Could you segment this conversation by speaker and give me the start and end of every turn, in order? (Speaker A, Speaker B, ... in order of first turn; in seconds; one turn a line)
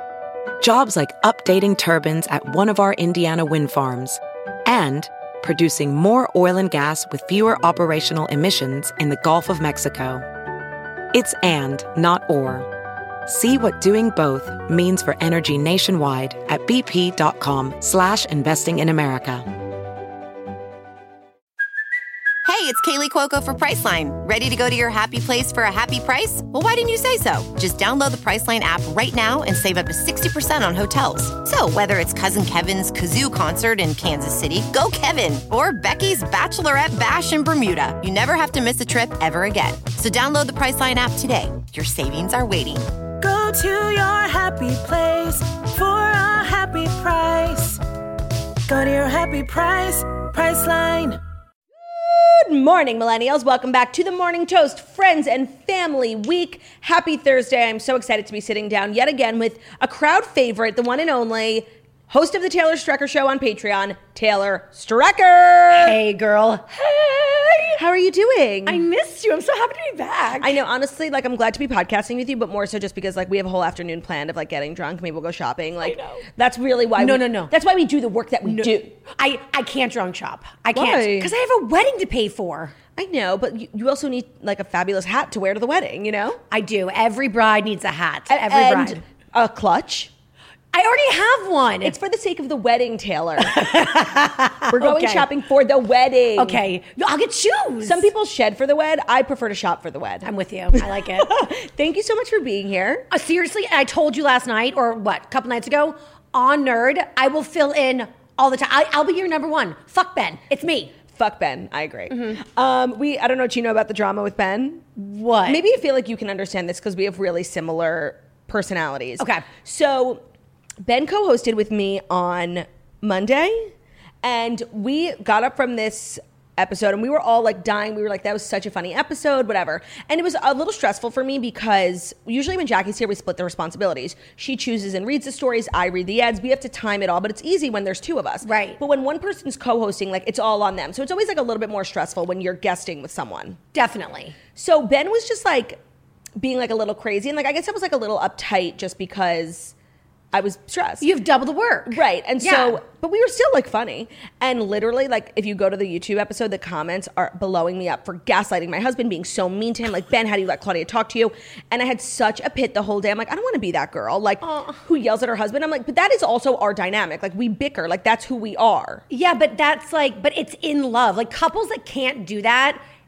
Speaker A: 0.6-10.2
Speaker A: 11.1-12.7
Speaker A: 13.2-19.4
Speaker B: 22.4-42.9
Speaker C: 43.2-47.8
Speaker C: 48.7-51.2
Speaker D: 51.8-66.0
Speaker E: 65.7-67.8
Speaker D: 67.8-68.8
Speaker E: 68.7-70.5
Speaker D: 70.4-78.9
Speaker E: 75.8-76.2
Speaker E: 77.0-77.5
Speaker E: 78.4-82.7
Speaker D: 80.7-81.3
Speaker D: 83.0-86.4
Speaker E: 86.5-89.0
Speaker D: 88.3-90.1
Speaker E: 90.7-92.0
Speaker D: 91.8-93.7
Speaker E: 93.4-95.3
Speaker D: 94.7-96.6
Speaker E: 96.3-98.1
Speaker D: 97.8-103.1
Speaker E: 100.2-101.5
Speaker E: 103.1-110.9
Speaker D: 111.1-114.8
Speaker E: 112.1-112.4
Speaker E: 115.0-115.6
Speaker D: 115.5-120.2
Speaker E: 119.2-119.5
Speaker D: 120.8-143.6
Speaker E: 138.4-138.8
Speaker E: 143.7-144.3
Speaker D: 144.6-145.8
Speaker D: 146.4-149.7
Speaker D: 150.3-151.1
Speaker E: 151.0-152.8
Speaker D: 151.9-169.0
Speaker E: 164.4-164.8
Speaker E: 169.1-172.8